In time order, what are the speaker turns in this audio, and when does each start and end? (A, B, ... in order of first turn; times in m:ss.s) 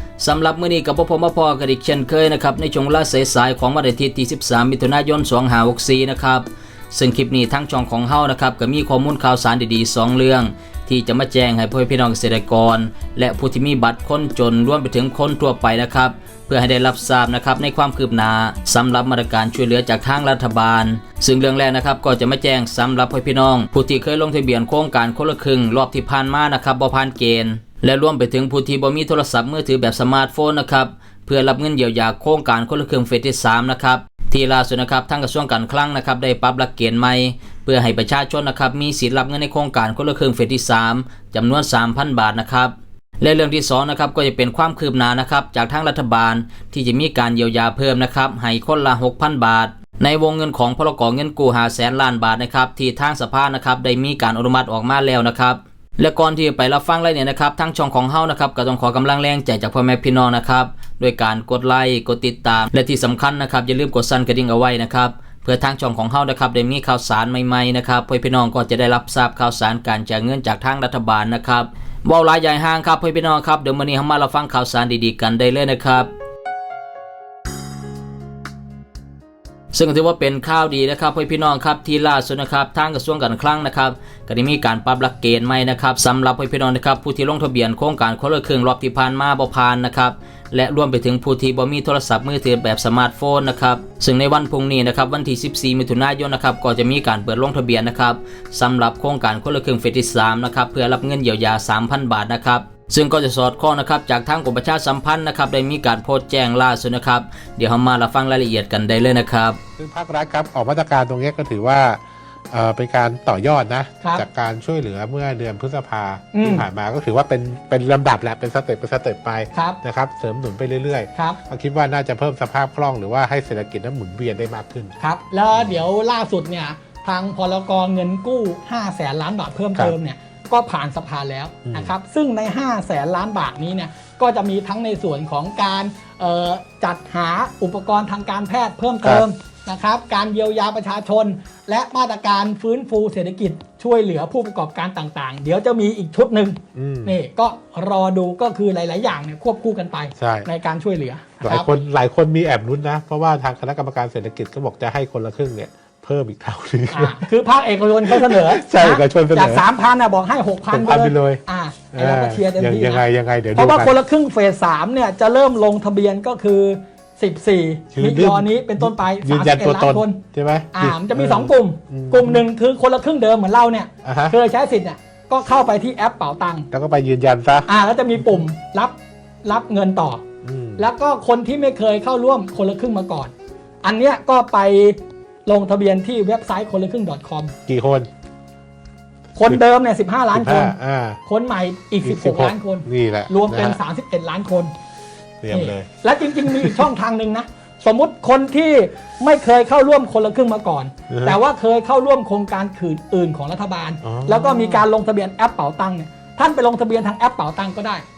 0:00.2-1:16.1 A
1:19.7-1:49.6 A
1:49.8-2:04.9 B
1:56.3-1:56.7 C
1:59.5-1:59.8 C
2:01.2-2:01.4 C
2:05.0-2:31.7 C
2:05.5-2:05.8 B
2:11.7-2:11.9 B
2:26.8-2:27.2 B
2:30.2-2:30.5 B
2:31.4-2:37.3 B
2:36.9-2:43.0 C
2:38.0-2:39.7 B
2:40.7-2:44.0 B
2:43.6-2:50.2 C
2:47.9-2:52.4 B
2:50.7-2:56.7 C
2:54.0-2:54.4 B
2:56.7-2:58.4 B
2:57.7-3:00.2 C
3:00.4-3:00.9 B
3:00.8-3:07.5 C
3:07.7-3:08.1 B
3:09.4-3:10.7 C
3:10.3-3:11.2 B
3:11.3-3:14.7 C
3:12.0-3:13.8 B
3:15.4-3:16.9 B
3:15.5-3:28.0 C
3:21.1-3:21.4 B
3:24.0-3:24.9 B